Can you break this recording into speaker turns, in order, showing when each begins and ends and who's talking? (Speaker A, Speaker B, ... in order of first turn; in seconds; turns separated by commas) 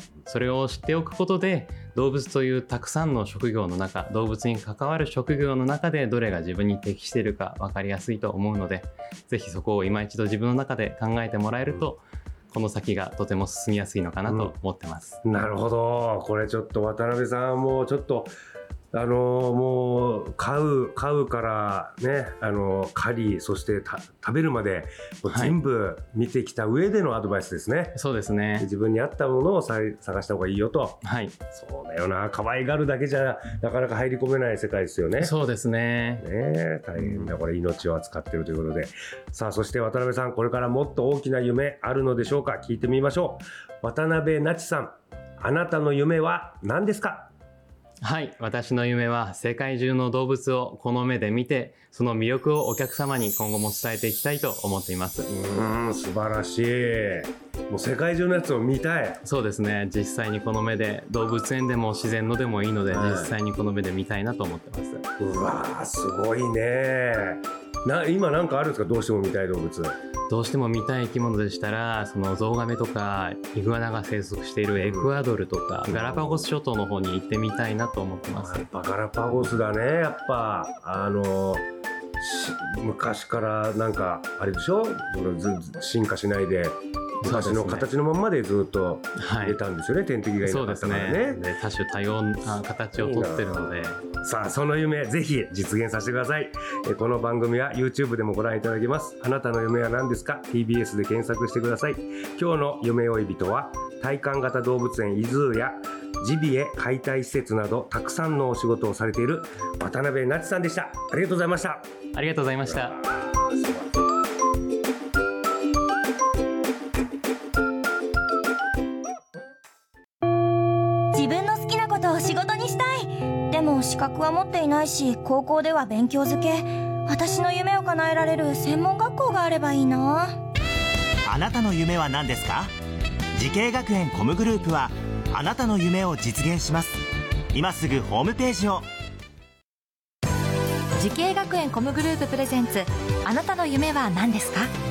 Speaker A: 0.2-15.2, Speaker B: 14.2-14.5, Speaker B: 15.2-18.3, Speaker B: 18.9-28.0, Speaker A: 25.3-25.6, Speaker A: 27.9-28.7, Speaker B: 28.6-31.0, Speaker A: 31.0-31.4, Speaker B: 31.5-35.3, Speaker A: 35.2-36.2, Speaker B: 36.2-47.3, Speaker A: 48.0-55.3, Speaker B: 55.3-59.2, Speaker A: 59.2-65.0, Speaker B: 62.9-63.4, Speaker B: 65.2-70.0, Speaker A: 70.3-78.7, Speaker B: 74.8-75.1, Speaker B: 75.8-76.5, Speaker B: 78.3-81.6, Speaker B: 82.2-91.4, Speaker A: 87.2-87.9, Speaker A: 89.2-89.6, Speaker A: 90.4-94.0, Speaker B: 92.9-111.9, Speaker A: 112.1-113.0, Speaker B: 112.7-113.8, Speaker C: 121.1-130.4, Speaker D: 131.2-132.7, Speaker D: 133.3-137.0, Speaker D: 137.5-138.8, Speaker E: 141.0-144.7